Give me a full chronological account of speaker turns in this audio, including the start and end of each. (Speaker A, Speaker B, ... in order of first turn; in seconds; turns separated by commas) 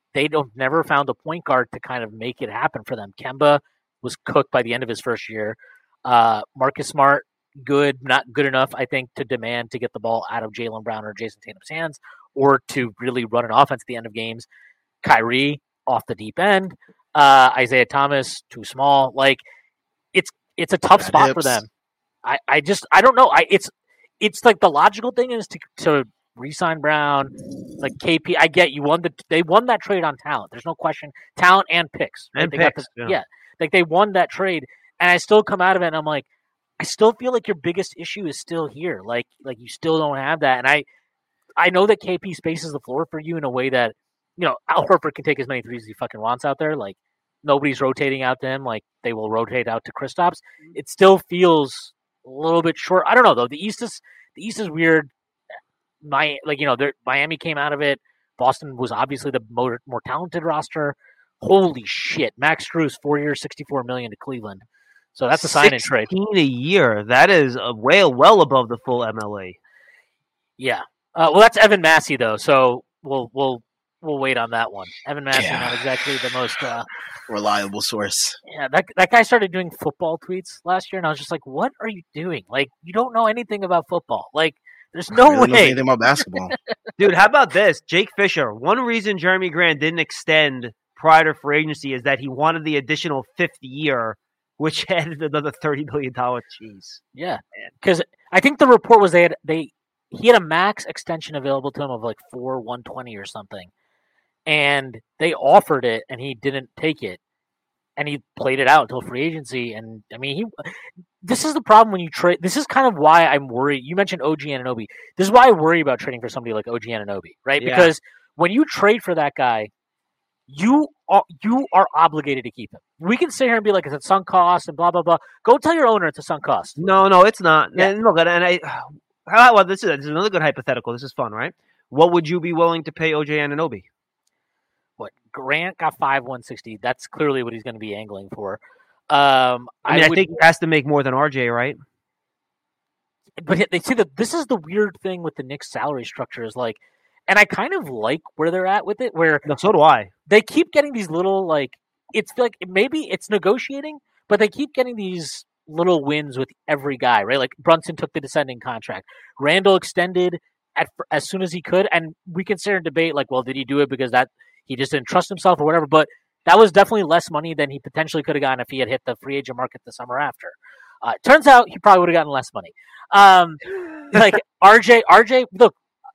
Speaker A: 0.1-14.5, Speaker A: 15.0-19.4, Speaker A: 20.1-21.7, Speaker B: 21.0-21.6, Speaker A: 22.2-36.3, Speaker C: 32.4-33.2, Speaker A: 36.8-40.9, Speaker A: 41.6-55.1, Speaker A: 56.0-64.6, Speaker A: 65.1-66.1, Speaker C: 65.4-69.6, Speaker A: 70.6-76.9, Speaker B: 75.3-76.0, Speaker B: 77.3-78.4, Speaker A: 78.5-85.8, Speaker B: 85.1-86.5, Speaker C: 87.0-97.0, Speaker A: 97.1-103.7, Speaker A: 104.5-107.2, Speaker A: 108.0-119.7, Speaker C: 117.6-117.9, Speaker A: 120.5-126.8, Speaker C: 126.8-133.9, Speaker A: 135.0-140.2, Speaker C: 139.9-141.8, Speaker A: 143.4-149.4, Speaker C: 149.5-150.1, Speaker A: 150.3-175.8